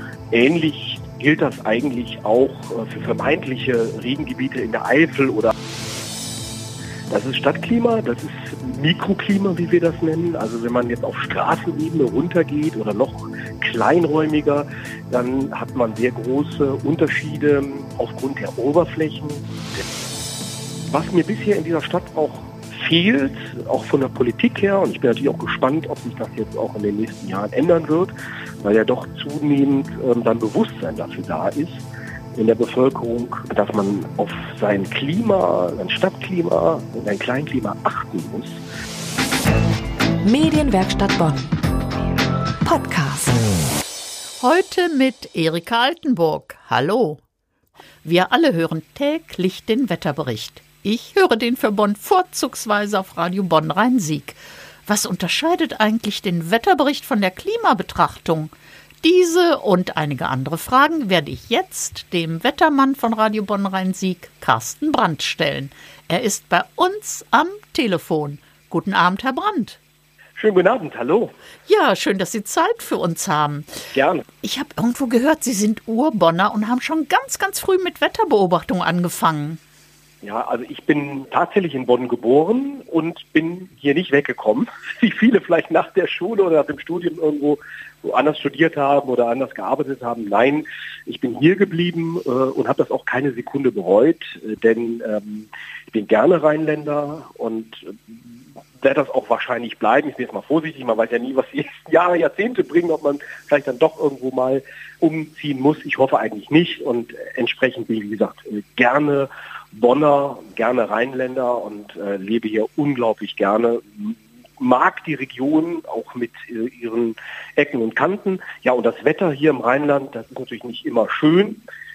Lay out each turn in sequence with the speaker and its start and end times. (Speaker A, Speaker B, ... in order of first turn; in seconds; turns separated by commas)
Speaker A: 0.3-5.5, Speaker A: 7.1-19.8, Speaker A: 20.9-38.6, Speaker B: 40.2-41.5, Speaker B: 42.6-43.4, Speaker C: 44.4-47.2, Speaker C: 48.0-69.8, Speaker A: 70.4-71.3, Speaker C: 71.7-73.8, Speaker A: 73.9-74.2, Speaker C: 74.4-79.6, Speaker A: 80.2-121.6